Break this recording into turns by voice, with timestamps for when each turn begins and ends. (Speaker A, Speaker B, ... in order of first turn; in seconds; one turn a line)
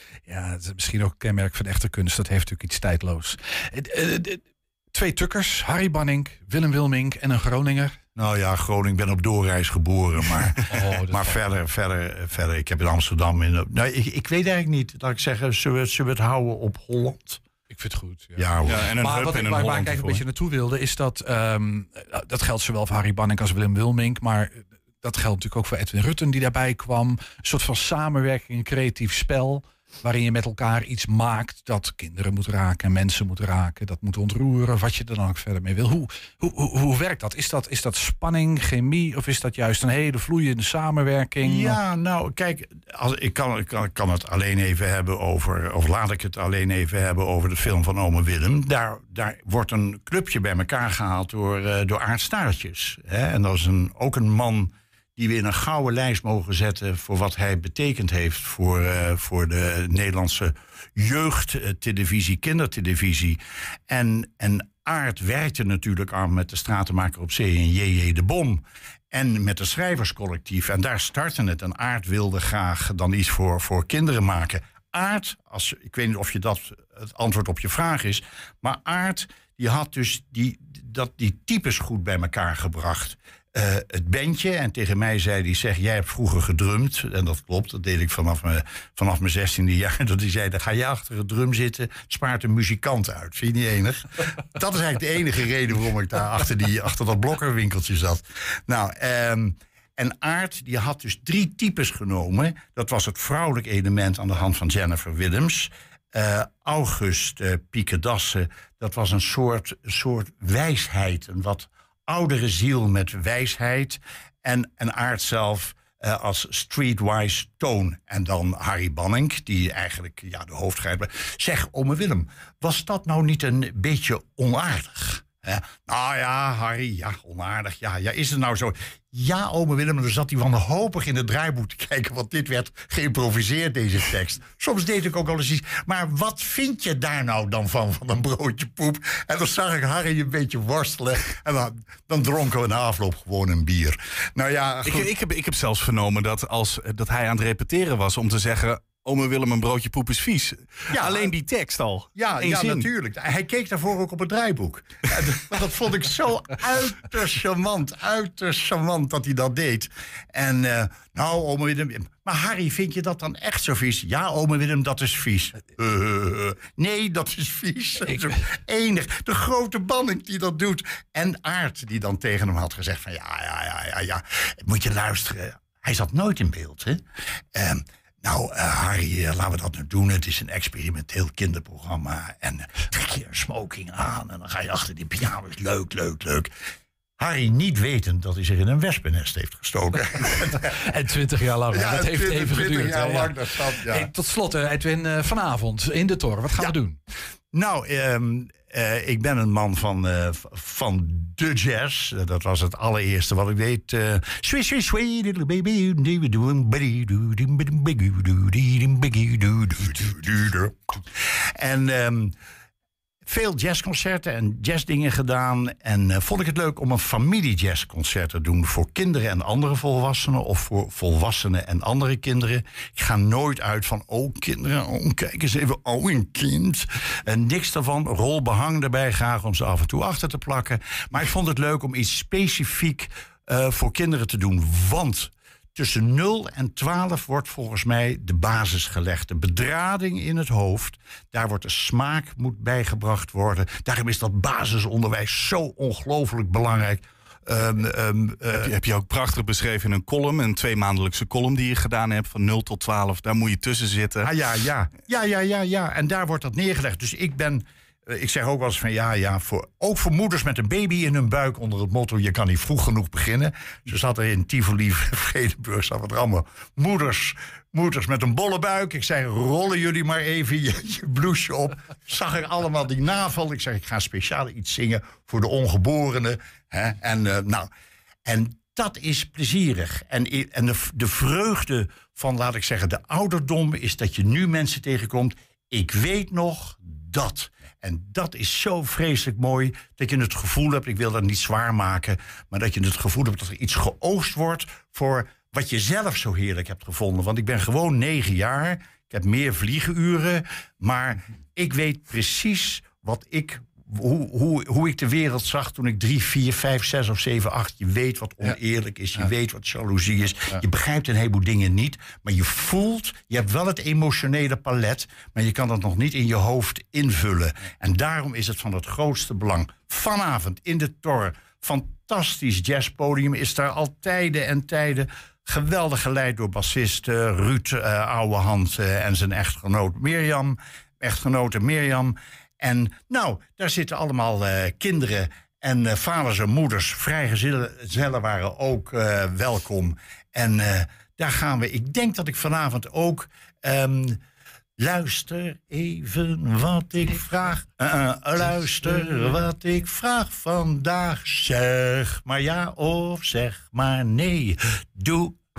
Speaker A: 0.3-8.0
Speaker B: 8.2-17.4
Speaker A: 10.7-11.4
Speaker A: 17.7-18.5
Speaker B: 18.4-18.9
Speaker C: 18.6-20.2
Speaker A: 19.0-41.8
Speaker B: 41.4-145.1
Speaker C: 144.8-152.9
Speaker B: 150.9-151.3
Speaker B: 152.1-177.0
Speaker A: 168.1-168.3
Speaker B: 177.5-186.5
Speaker B: 187.2-190.8
Speaker A: 190.6-197.0
Speaker B: 191.7-194.1
Speaker B: 197.5-212.3
Speaker B: 213.2-248.7
Speaker C: 248.5-254.3
Speaker B: 254.2-277.7
Speaker B: 278.2-344.2
Speaker B: 344.8-355.4